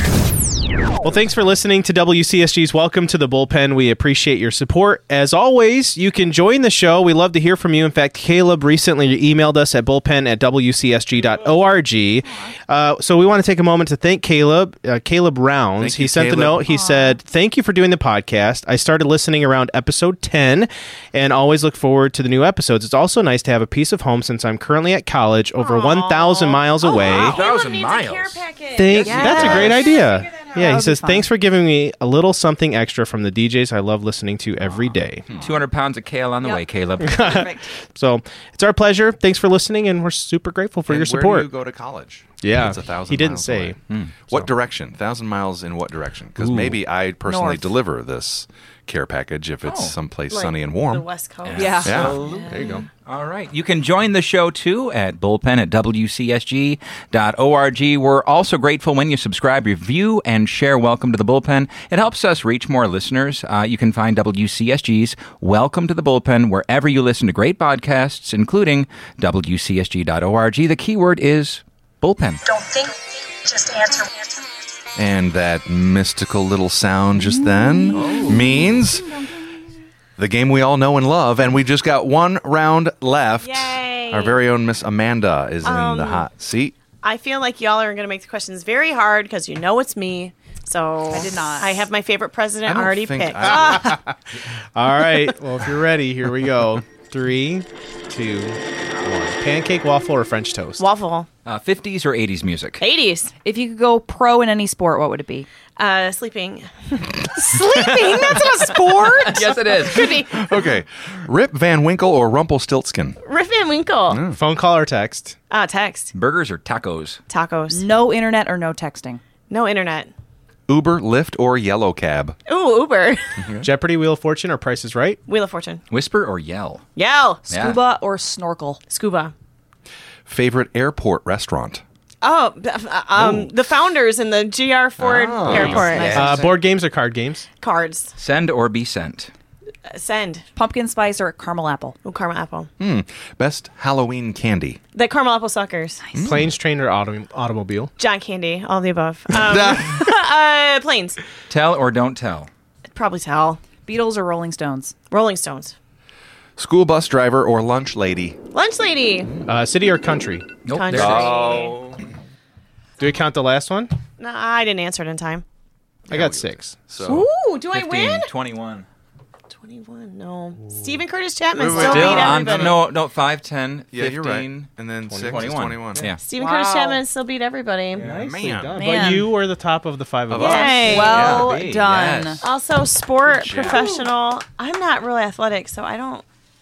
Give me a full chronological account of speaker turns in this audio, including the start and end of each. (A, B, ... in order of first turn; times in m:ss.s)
0:01.0-0:27.4 A
0:12.2-0:12.5 B
0:15.8-0:16.7 C
0:16.6-0:17.2 B
0:25.6-0:30.7 D
0:27.0-0:29.9 E
0:28.8-0:35.3 A
0:29.0-0:29.7 B
0:30.6-0:31.3 B
0:34.7-0:37.5 E
0:36.4-0:37.7 B
0:37.0-0:41.5 A
0:40.9-0:43.8 C
0:42.4-0:43.8 A
0:43.9-0:44.2 E
0:44.3-0:51.0 C
0:47.2-0:47.7 B
0:49.6-0:50.0 E
0:50.3-0:52.8 D
0:51.4-1:12.6 E
0:51.6-0:52.1 B
0:51.8-0:52.8 C
0:52.5-0:52.8 A
1:14.9-1:19.1 C
1:17.4-1:19.4 B
1:17.9-1:18.6 E
1:20.2-1:26.8 C
1:23.4-1:24.4 D
1:25.6-1:26.3 D
1:27.0-1:33.9 D
1:31.1-1:31.9 B
1:32.6-1:34.0 C
1:33.6-1:34.1 A
1:34.7-1:40.8 A
1:40.8-1:41.3 D
1:41.4-1:42.8 E
1:42.8-1:43.3 D
1:43.4-1:45.5 B
1:45.8-1:50.5 D
1:47.4-1:49.4 B
1:49.2-1:50.2 E
1:50.2-1:53.2 C
1:53.2-1:54.2 D
1:54.1-1:54.4 C
1:54.3-1:55.4 A
1:55.5-1:56.1 D
1:56.1-1:57.2 E
1:57.3-1:57.8 D
1:57.7-1:59.2 B
1:59.5-2:00.1 D
2:00.7-2:02.4 C
2:02.5-2:03.5 D
2:03.4-2:03.7 C
2:03.6-2:05.2 A
2:05.3-2:05.8 D
2:05.9-2:06.8 E
2:07.0-2:07.4 D
2:07.5-2:08.8 B
2:07.5-2:07.8 E
2:08.9-2:09.3 D
2:10.2-2:11.8 C
2:12.2-2:16.3 D
2:13.1-2:13.5 C
2:15.0-2:16.1 C
2:15.4-2:16.5 E
2:15.6-2:16.5 B
2:16.1-2:17.5 A
2:17.6-2:18.1 D
2:18.2-2:19.3 E
2:19.9-2:20.4 D
2:20.6-2:22.0 B
2:22.0-2:22.7 D
2:22.8-2:24.8 C
2:24.9-2:26.1 D
2:26.1-2:26.5 C
2:26.2-2:27.9 A
2:28.0-2:31.2 D
2:29.3-2:30.1 C
2:31.5-2:32.5 E
2:32.9-2:33.6 D
2:33.8-2:34.9 B
2:35.1-2:35.7 D
2:36.6-2:38.4 C
2:38.5-2:39.4 D
2:39.4-2:40.6 A
2:40.6-2:42.0 E
2:40.7-2:41.8 D
2:40.9-2:41.7 C
2:43.0-2:43.9 A
2:44.2-2:45.4 D
2:46.1-2:47.3 C
2:46.1-2:46.9 A
2:47.0-2:48.3 D
2:47.7-2:48.9 E
2:49.5-2:52.8 D
2:50.6-2:50.9 A
2:51.6-2:52.8 C
2:51.7-2:56.2 E
2:53.9-2:56.1 C
2:55.1-2:56.1 A
2:56.2-2:58.1 D
2:56.4-2:57.0 B
2:57.9-2:58.2 E
2:58.0-3:01.1 A
2:58.1-2:58.8 C
2:58.8-2:59.3 B
3:00.3-3:01.6 C
3:00.4-3:01.4 D
3:00.4-3:02.4 B
3:01.1-3:02.4 E
3:02.4-3:06.2 D
3:03.3-3:03.8 C
3:03.7-3:04.0 B